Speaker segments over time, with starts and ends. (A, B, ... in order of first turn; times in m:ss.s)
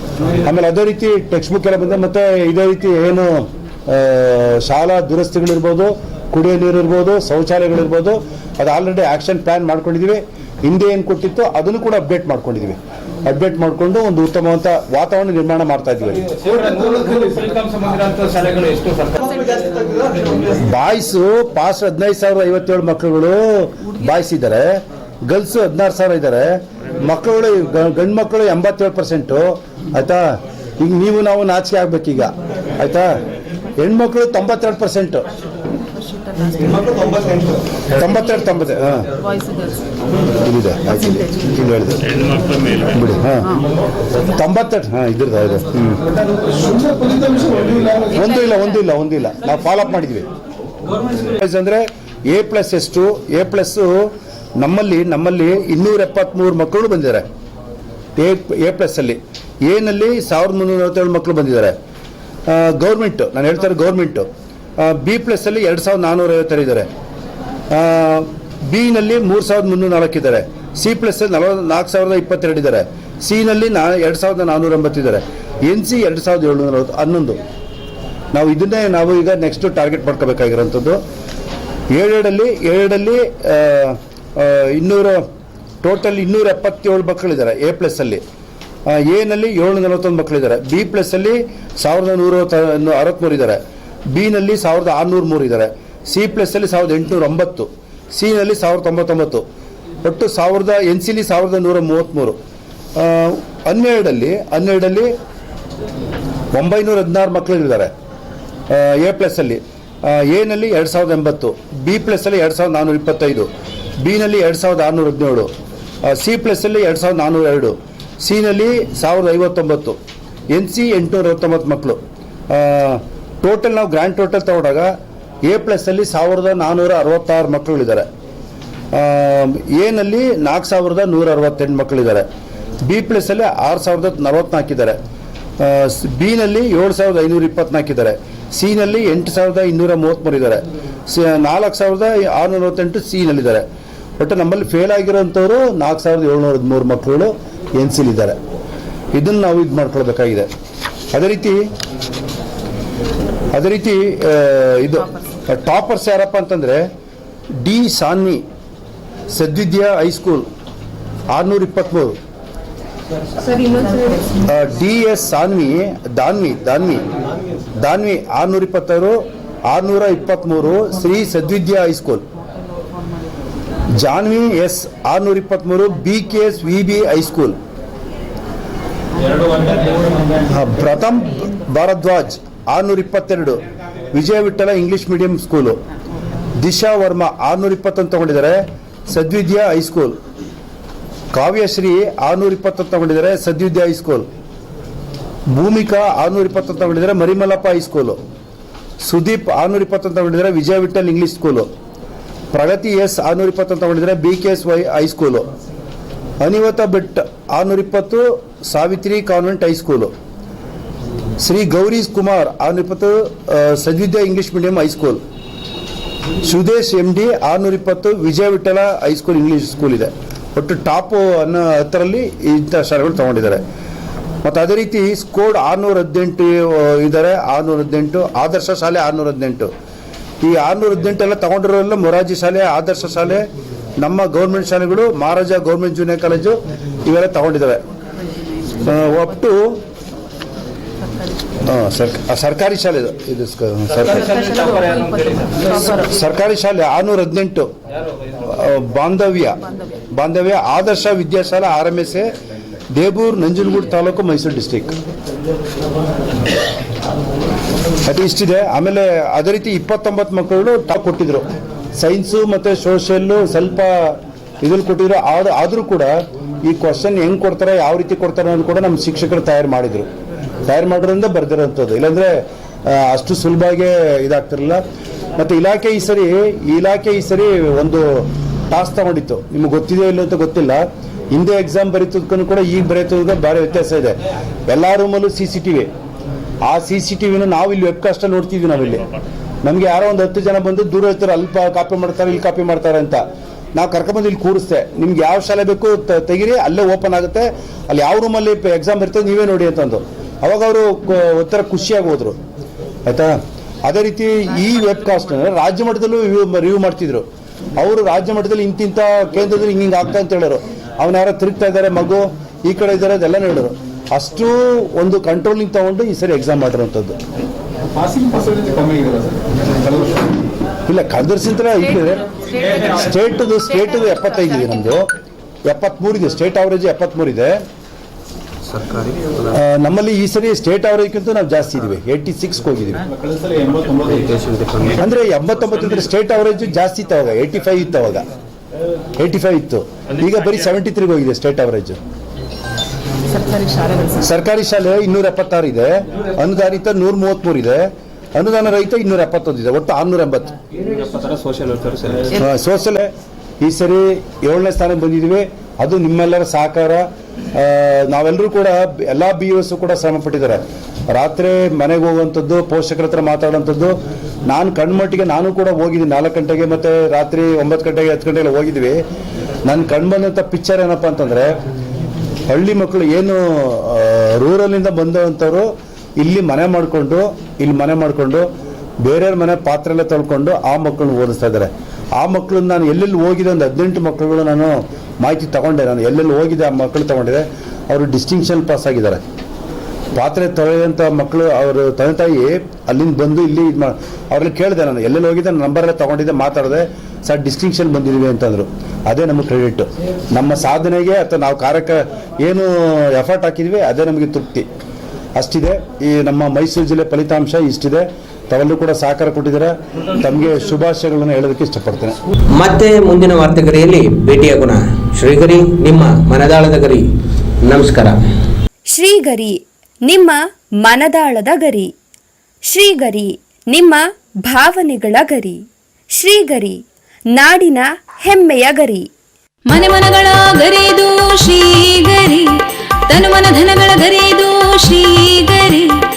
0:00.4-0:16.4 A
0:16.4-0:20.3 B
0:20.6-0:30.3 A
0:30.8-0:33.1 A
0:33.8-0:35.2 A
0:36.6-0:37.6 B
0:37.9-0:39.1 A
0:40.4-0:43.6 A
0:44.2-0:46.0 A
0:46.1-0:48.2 B
0:48.1-0:50.3 A
0:51.3-0:57.3 A
0:58.2-1:01.8 A
1:02.5-1:04.3 A
1:04.8-1:06.9 A
1:07.7-1:17.4 A
1:18.3-1:21.0 A
1:21.9-1:25.2 A
1:25.8-1:28.2 A
1:28.9-1:33.6 A
1:34.1-1:39.4 A
1:40.0-1:42.4 A
1:43.0-1:45.1 A
1:46.5-1:47.9 A
1:48.7-1:53.5 A
1:54.0-1:55.5 A
1:56.0-2:00.0 A
2:00.5-2:04.9 A
2:05.4-2:08.1 A
2:08.9-2:12.3 A
2:12.8-2:15.0 A
2:15.6-2:23.6 A
2:24.2-2:28.4 A
2:29.1-2:30.5 A
2:31.1-2:31.6 A
2:33.5-2:36.9 A
2:37.6-2:38.4 A
2:39.3-2:40.5 A
2:41.3-2:42.2 A
2:44.4-2:47.0 A
2:47.8-2:52.3 A
2:53.9-2:57.6 A
3:00.5-3:03.6 A
3:04.1-3:05.8 A
3:06.6-3:10.2 A
3:11.3-3:14.3 A
3:15.5-3:18.2 A
3:19.0-3:21.7 A
3:22.5-3:25.5 A
3:26.4-3:30.1 A
3:31.4-3:35.2 A
3:36.4-3:43.6 A
3:44.4-3:49.7 A
3:50.4-3:53.5 A
3:54.0-3:57.8 A
3:58.7-3:59.8 A
4:01.6-4:04.9 A
4:05.6-4:07.7 A
4:08.4-4:12.3 A
4:12.9-4:15.0 A
4:18.1-4:30.1 A
4:30.7-4:34.8 A
4:35.4-4:45.9 A
4:46.7-4:49.1 A
4:49.6-4:53.2 A
4:53.8-5:02.4 A
5:03.1-5:07.2 A
5:07.8-5:17.2 A
5:17.8-5:20.4 B
5:20.9-5:25.1 A
5:25.7-5:27.6 A
5:28.8-5:29.1 B
5:29.5-5:33.0 A
5:33.1-5:35.0 B
5:35.0-5:38.3 A
5:39.2-5:42.0 A
5:44.1-5:50.5 A
5:50.8-5:52.4 B
5:52.4-5:53.1 A
5:53.6-6:09.0 A
6:09.7-6:11.6 A
6:12.5-6:18.5 A
6:19.0-6:29.2 A
6:30.1-6:44.7 A
6:45.4-6:52.2 A
6:52.5-6:57.1 C
6:57.6-6:58.2 C
6:58.9-7:01.9 D
7:02.7-7:05.6 D
7:06.2-7:06.8 D
7:07.3-7:09.1 D
7:09.7-7:12.5 E
7:13.1-7:16.0 E